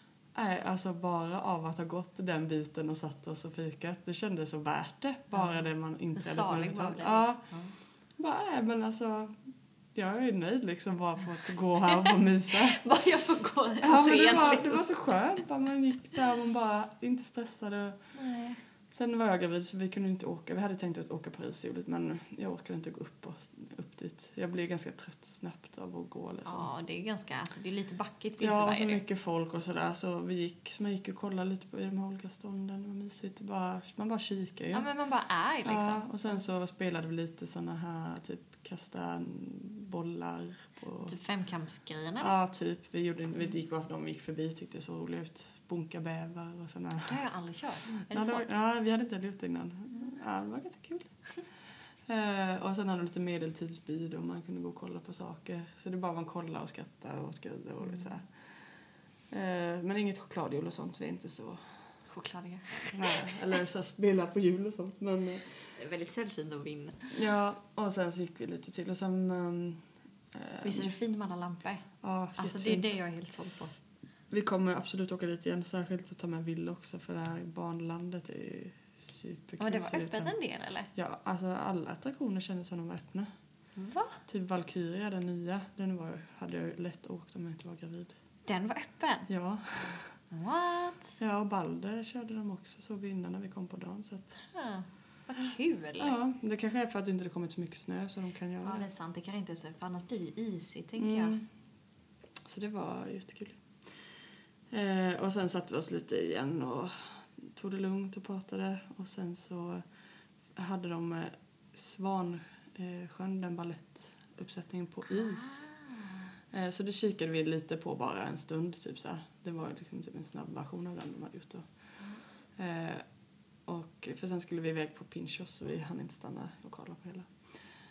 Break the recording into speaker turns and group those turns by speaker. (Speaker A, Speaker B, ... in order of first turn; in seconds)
Speaker A: 0.3-7.5, 8.2-12.8, 13.8-18.1, 18.9-26.7, 28.4-34.9, 35.6-41.1, 42.2-47.2, 48.0-51.1, 52.0-61.9, 62.9-65.8, 67.1-70.9, 72.0-73.0, 74.3-80.3, 80.9-83.3, 84.3-88.1, 89.3-90.2, 91.2-94.4, 95.4-98.9, 101.0-101.5, 102.4-109.9, 110.5-115.7, 116.5-121.9, 122.5-123.0, 123.6-127.5
Speaker B: 5.3-7.7, 11.9-14.8, 18.1-18.6, 26.4-29.0, 34.7-36.0, 41.0-42.3, 47.0-48.5, 57.8-58.2, 62.1-63.3, 65.8-67.1, 70.6-73.7, 79.6-80.9, 83.8-84.2, 88.5-89.3, 90.3-91.2, 94.4-96.1, 98.6-101.4, 115.1-116.3